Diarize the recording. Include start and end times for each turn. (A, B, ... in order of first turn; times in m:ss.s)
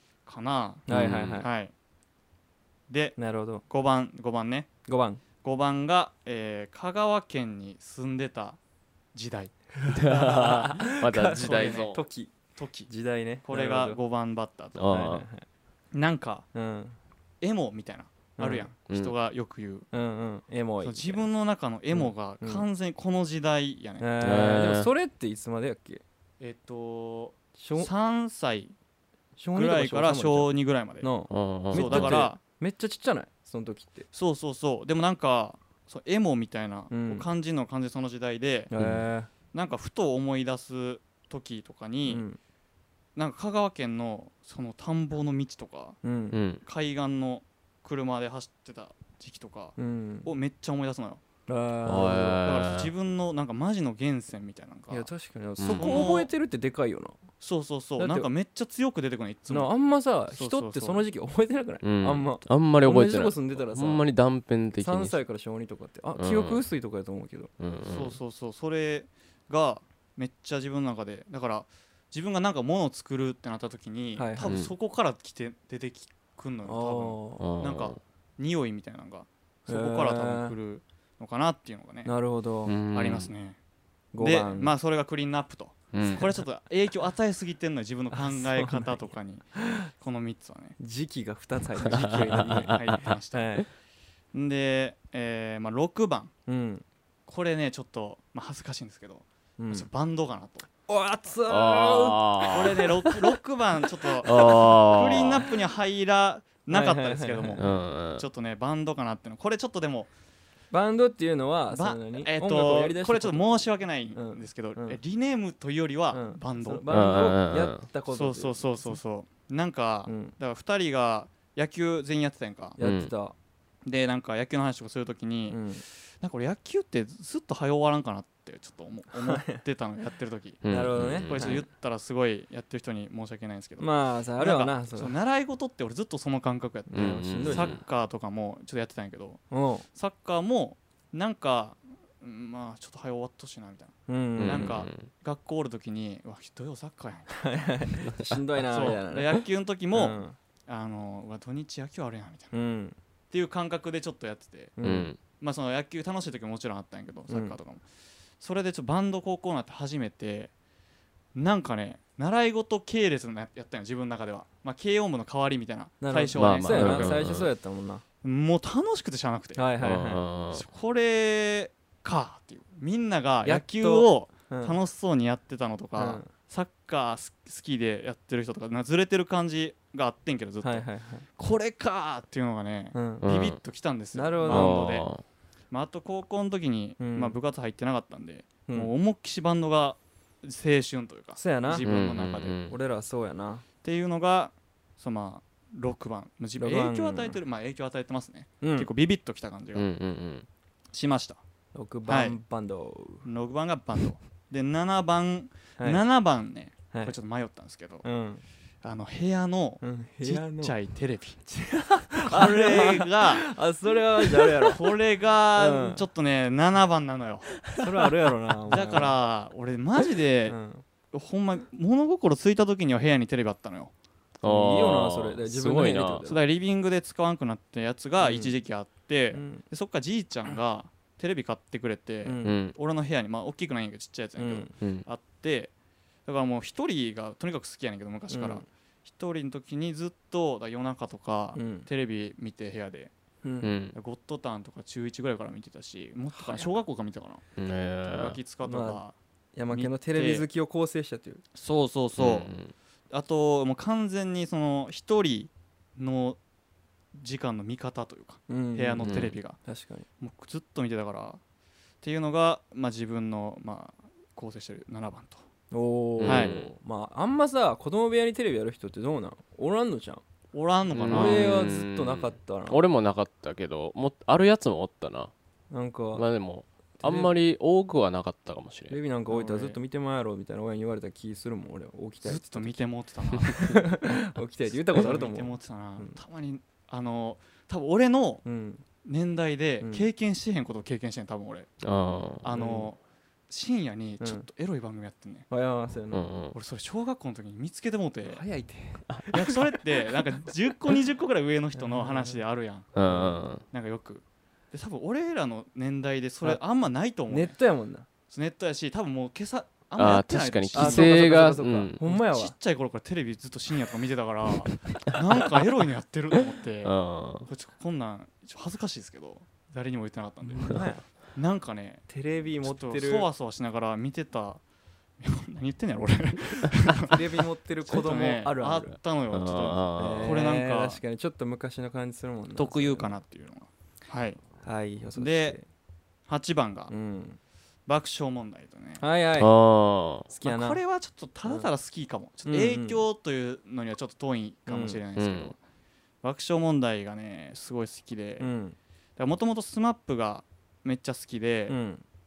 0:00.2-0:00.9 A
0:00.9-0:01.5 B
0:00.9-0:01.4 C
0:01.4-0:01.7 A
0:02.9-0:04.7 A
0:03.2-0:03.6 B
0:04.9-0:05.2 B
0:05.4-0:08.6 A
0:09.1-0:12.0 A
0:09.8-0:12.3 B
0:09.9-0:12.0 C
0:12.6-0:12.9 A
0:12.9-0:14.0 B
0:13.4-0:14.8 A
0:14.8-0:15.2 C
0:14.9-0:15.4 B
0:15.9-0:16.5 A
0:16.5-0:17.0 B
0:17.4-0:19.9 A
0:18.4-0:18.7 B
0:19.9-0:21.2 B
0:20.8-0:24.1 A
0:21.9-0:22.6 B
0:24.0-0:26.0 B
0:24.2-0:24.9 C
0:26.4-0:28.7 A
0:27.6-0:27.9 B
0:29.4-0:34.1 B
0:29.5-0:31.1 A
0:31.3-0:32.2 C
0:31.7-0:32.4 A
0:34.1-0:38.7 A
0:36.9-0:37.2 B
0:38.7-0:39.3 B
0:38.8-0:39.0 C
0:39.5-0:42.2 A
0:42.1-0:42.4 B
0:43.2-0:46.0 A
0:46.0-0:46.4 B
0:46.3-0:46.6 C
0:46.6-0:51.2 A
0:49.8-0:50.3 B
0:51.5-0:52.4 B
0:51.8-0:52.9 C
0:52.4-0:55.1 A
0:54.9-0:57.2 B
0:55.6-0:56.0 C
0:55.6-0:56.3 A
0:57.4-0:59.7 A
0:58.0-0:58.3 B
0:59.5-1:04.1 B
1:00.3-1:01.0 A
1:01.8-1:05.2 C
1:04.8-1:07.5 B
1:06.2-1:06.6 C
1:07.6-1:08.2 C
1:07.8-1:22.1 A
1:14.2-1:14.5 B
1:14.4-1:14.7 C
1:16.6-1:17.5 B
1:17.4-1:18.0 C
1:19.7-1:20.5 B
1:22.0-1:22.8 B
1:22.6-1:23.3 C
1:22.9-1:23.6 A
1:24.1-1:24.7 B
1:24.2-1:30.8 A
1:25.9-1:26.4 C
1:28.1-1:29.8 B
1:30.8-1:33.7 B
1:31.9-1:33.0 C
1:31.9-1:33.6 A
1:34.3-1:36.3 A
1:36.5-1:36.8 B
1:37.3-1:40.7 A
1:39.6-1:39.9 B
1:40.9-1:43.1 B
1:41.5-1:42.9 C
1:42.5-1:50.1 A
1:44.2-1:45.5 C
1:46.7-1:47.6 B
1:47.6-1:48.2 C
1:50.7-1:55.0 B
1:51.7-1:56.9 A
1:56.1-1:59.0 B
1:56.9-1:57.8 C
1:58.1-2:02.8 A
2:00.1-2:00.3 B
2:02.8-2:03.3 B
2:02.8-2:03.1 C
2:03.8-2:19.4 A
2:05.5-2:05.8 B
2:09.1-2:09.6 B
2:10.6-2:11.6 C
2:10.6-2:11.6 B
2:13.8-2:15.1 B
2:16.9-2:17.8 C
2:16.9-2:17.8 B
2:19.5-2:19.8 B
2:19.9-2:27.8 A
2:24.1-2:24.8 B
2:24.4-2:25.1 C
2:27.3-2:29.4 B
2:28.6-2:32.5 A
2:29.9-2:30.4 B
2:32.5-2:33.0 B
2:33.3-2:34.7 A
2:34.8-2:35.1 B
2:34.8-2:35.2 C
2:35.4-2:37.8 A
2:37.3-2:37.6 B
2:38.4-2:40.5 A
2:41.3-2:47.2 A
2:46.0-2:48.0 B
2:46.3-2:47.5 C
2:48.2-2:49.6 A
2:49.6-2:50.2 B
2:49.8-2:50.6 C
2:50.5-3:05.1 A
2:53.4-2:54.8 B
2:56.0-2:56.3 B
3:00.6-3:01.2 B
3:02.9-3:03.2 B
3:03.2-3:03.6 C
3:04.1-3:05.0 B
3:04.4-3:05.2 C
3:05.7-3:12.7 A
3:07.0-3:07.4 B
3:11.4-3:11.8 B
3:11.7-3:12.7 C
3:12.7-3:13.6 B
3:13.8-3:19.8 A
3:16.6-3:17.4 B
3:18.6-3:18.9 B
3:19.7-3:20.5 C
3:20.9-3:21.4 A
3:21.7-3:23.3 B
3:22.1-3:22.4 A
3:23.2-3:28.0 A
3:25.8-3:26.0 B
3:28.0-3:28.4 B
3:28.8-3:31.4 A
3:29.8-3:30.7 B
3:31.5-3:34.8 B
3:32.2-3:33.5 A
3:34.4-3:37.7 A
3:35.6-3:36.0 B
3:37.8-3:39.1 B
3:38.7-3:40.6 A
3:40.5-3:40.8 B
3:41.1-3:43.9 A
3:44.4-3:46.2 C
3:44.4-3:46.4 B
3:46.3-3:55.7 A
3:48.2-3:48.5 B
3:49.3-3:49.6 B
3:52.2-3:52.6 B
3:52.4-3:52.7 C
3:54.4-3:54.7 B
3:54.8-3:55.0 C
3:56.2-4:03.1 A
3:58.3-3:58.6 B
4:01.5-4:01.9 B
4:03.4-4:03.7 B
4:03.6-4:04.0 C
4:03.9-4:07.4 A
4:06.3-4:06.7 B
4:07.6-4:08.4 C
4:08.0-4:09.1 A
4:08.6-4:09.0 B
4:09.5-4:11.4 B
4:09.7-4:10.4 A
4:11.5-4:12.5 A
4:12.2-4:12.7 C
4:13.1-4:16.4 A
4:17.1-4:19.6 A
4:18.5-4:20.0 B
4:19.0-4:19.4 C
4:20.2-4:21.4 A
4:22.0-4:25.4 A
4:25.7-4:30.2 B
4:26.2-4:26.7 C
4:26.2-4:26.6 A
4:30.5-4:31.4 A
4:30.9-4:35.3 C
4:31.1-4:32.8 B
4:35.7-4:36.2 B
4:36.1-4:39.0 C
4:37.0-4:37.3 B
4:38.9-4:42.8 B
4:39.3-4:39.8 A
4:42.2-4:44.0 A
4:43.5-4:46.2 B
4:44.7-4:48.4 A
4:48.4-4:48.8 B
4:49.0-4:51.7 A
4:49.8-4:50.1 B
4:51.8-4:52.4 C
4:52.4-4:53.0 A
4:52.5-4:52.9 B
4:53.5-4:55.5 A
4:54.2-4:54.5 B
4:55.5-4:56.3 B
4:56.1-4:56.5 C
4:56.5-4:58.4 A
4:58.3-4:59.8 B
4:59.3-5:03.0 A
5:01.7-5:02.4 B
5:02.9-5:03.6 C
5:03.1-5:03.4 B
5:03.6-5:07.6 A
5:07.3-5:08.0 B
5:08.3-5:22.1 A
5:10.0-5:12.0 C
5:10.7-5:12.5 B
5:16.8-5:17.5 C
5:20.5-5:21.1 B
5:22.1-5:23.3 B
5:22.6-5:24.6 A
5:25.2-5:31.0 A
5:27.0-5:29.0 B
5:29.3-5:30.3 C
5:30.0-5:33.1 B
5:32.6-5:34.4 A
5:34.6-5:35.7 B
5:35.2-5:35.6 A
5:36.3-5:36.9 A
5:36.9-5:37.4 B
5:37.9-5:39.0 A
5:39.0-5:39.5 B
5:39.4-5:40.3 C
5:40.3-5:40.8 B
5:40.4-5:45.6 A
5:42.4-5:43.0 B
5:44.7-5:45.0 B
5:45.2-5:45.5 C
5:46.2-5:48.5 A
5:48.4-5:48.8 B
5:49.2-5:51.8 A
5:51.7-5:52.0 B